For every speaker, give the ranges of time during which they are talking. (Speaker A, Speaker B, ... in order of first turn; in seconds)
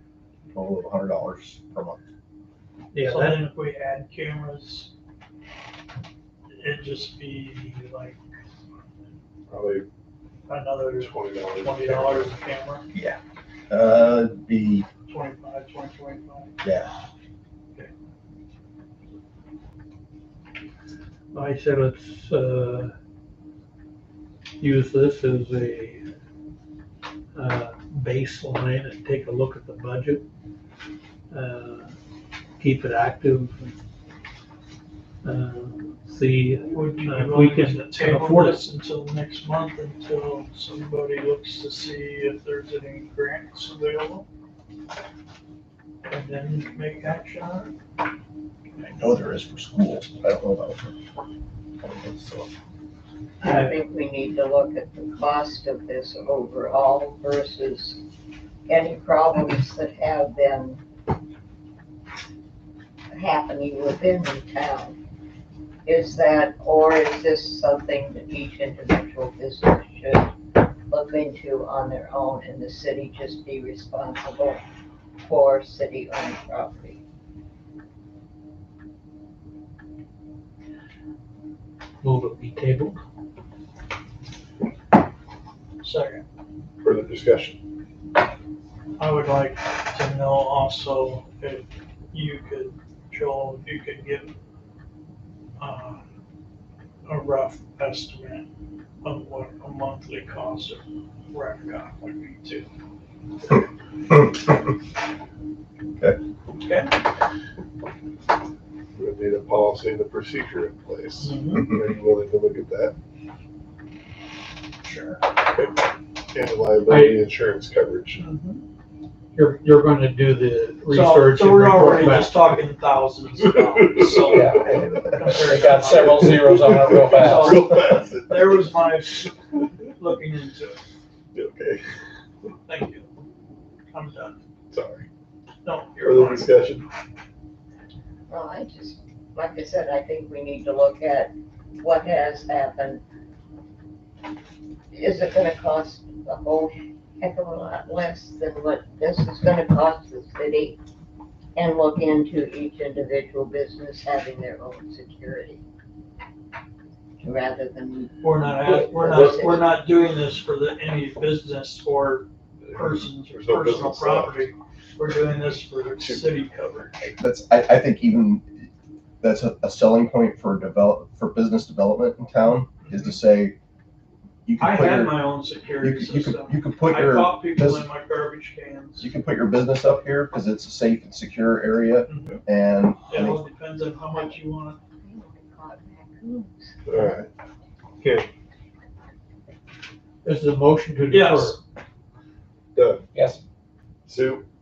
Speaker A: 0.5-2.0, 12.9-13.2, 13.7-14.8, 16.6-16.9, 48.8-51.0, 51.9-52.5, 167.2-168.7, 169.2-173.6, 174.4-175.2, 175.8-177.8, 179.0-183.4
Speaker B: 2.9-3.4, 21.3-22.9, 24.6-26.0, 27.3-30.2, 31.3-31.9, 32.6-33.7, 35.2-38.6, 53.4-53.7, 82.0-83.0, 116.9-117.2, 119.3-122.5, 190.2-191.6
Speaker C: 3.0-4.9, 6.5-8.2, 10.5-12.8, 15.1-16.5, 36.7-44.2, 46.1-47.7, 85.8-86.2, 89.0-94.3, 95.6-96.0, 97.0-98.5, 99.0-102.7, 106.6-106.9, 111.2-111.7, 114.8-115.3, 118.2-118.6, 120.9-126.5, 127.1-129.4, 129.9-130.8, 132.7-133.1, 133.9-134.4, 135.6-136.5, 158.2-167.0, 172.8-173.1, 174.6-179.1, 182.1-182.4, 183.1-184.8, 191.1-191.6
Speaker D: 9.5-9.8, 10.9-12.3, 86.8-87.6, 108.9-112.9, 116.3-118.3, 123.8-124.6, 126.2-128.7, 131.3-131.8, 134.7-135.1, 136.0-136.9, 162.6-164.5, 166.0-166.3, 186.8-187.3, 188.0-188.3, 192.7-193.1, 194.1-194.4
Speaker E: 53.4-58.0, 58.7-60.8, 63.1-65.0, 65.8-74.6, 75.2-77.0, 138.3-143.0, 144.9-150.8, 151.6-155.6, 157.2-159.7, 184.1-184.4, 185.0-187.1
Speaker F: 124.3-127.7, 193.1-193.4